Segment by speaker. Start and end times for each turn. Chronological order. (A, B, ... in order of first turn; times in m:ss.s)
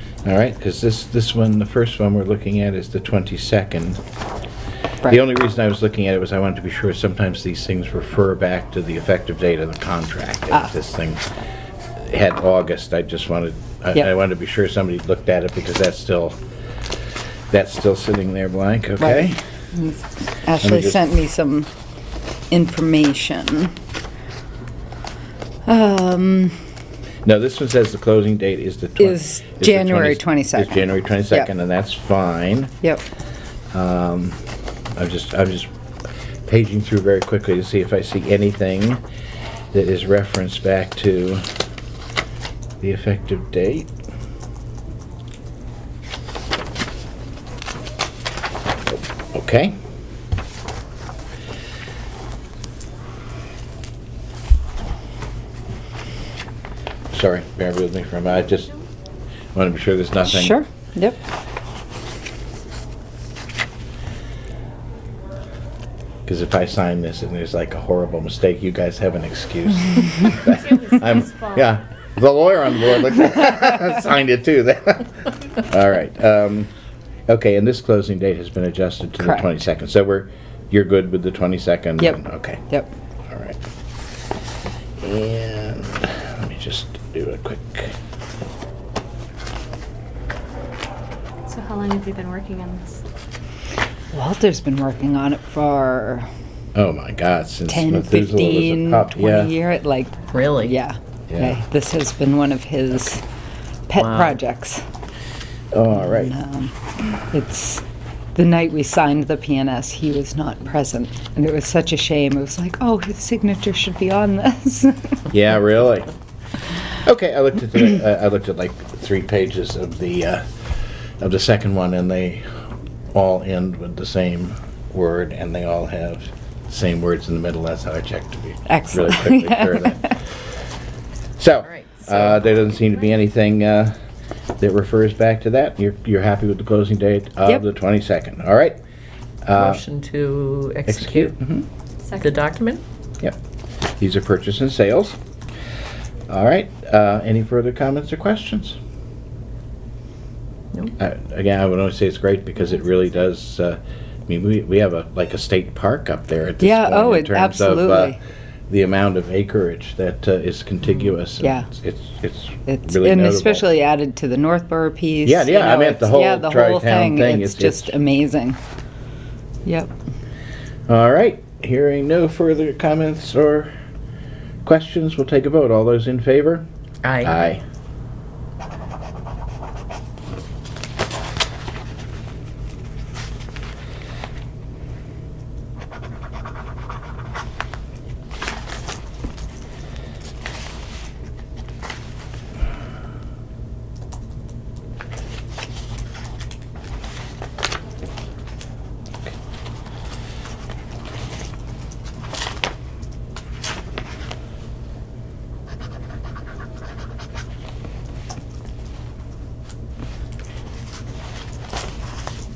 0:00.2-0:04.0 A
0:05.0-0:11.2 A
0:12.0-0:16.4 A
0:17.5-0:19.4 A
0:19.0-0:21.7 B
0:20.6-0:21.1 A
0:22.5-0:23.7 B
0:25.7-0:26.6 B
0:27.2-0:32.8 A
0:29.0-0:31.5 B
0:33.7-0:34.4 A
0:34.9-0:35.7 A
0:36.5-0:39.0 A
0:39.7-0:41.4 A
0:42.8-0:43.9 A
0:48.9-0:49.8 A
0:57.1-0:58.8 A
0:59.5-1:00.6 A
1:00.2-1:01.2 B
1:06.3-1:16.7 A
1:10.5-1:11.6 C
1:17.3-1:22.6 A
1:22.0-1:22.9 B
1:23.3-1:23.6 A
1:25.0-1:28.0 A
1:31.5-1:33.0 C
1:34.1-1:36.3 B
1:36.8-1:39.5 A
1:37.7-1:43.2 B
1:40.3-1:40.8 D
1:41.3-1:41.6 A
1:43.9-1:44.8 B
1:44.0-1:44.4 D
1:45.7-1:46.3 A
1:45.9-1:46.7 B
1:47.3-1:47.8 B
1:48.4-1:55.2 B
1:55.3-1:56.1 A
1:57.0-2:02.4 A
2:03.1-2:10.2 A
2:08.7-2:10.1 B
2:11.4-2:13.9 A
2:11.6-2:12.4 D
2:14.6-2:18.8 A
2:19.4-2:19.8 A
2:19.5-2:21.3 D
2:20.9-2:21.7 A
2:22.0-2:22.4 C
2:22.1-2:22.8 D
2:24.0-2:25.2 A
2:26.3-2:28.8 A
2:31.0-2:38.2 A
2:36.6-2:38.2 B
2:38.7-2:43.7 A
2:41.4-2:41.7 B
2:42.7-2:48.6 B
2:45.2-2:48.0 A
2:49.6-2:49.9 B
2:50.9-2:53.7 A
2:54.6-2:56.7 A
2:57.0-2:57.4 D
2:57.2-2:57.6 A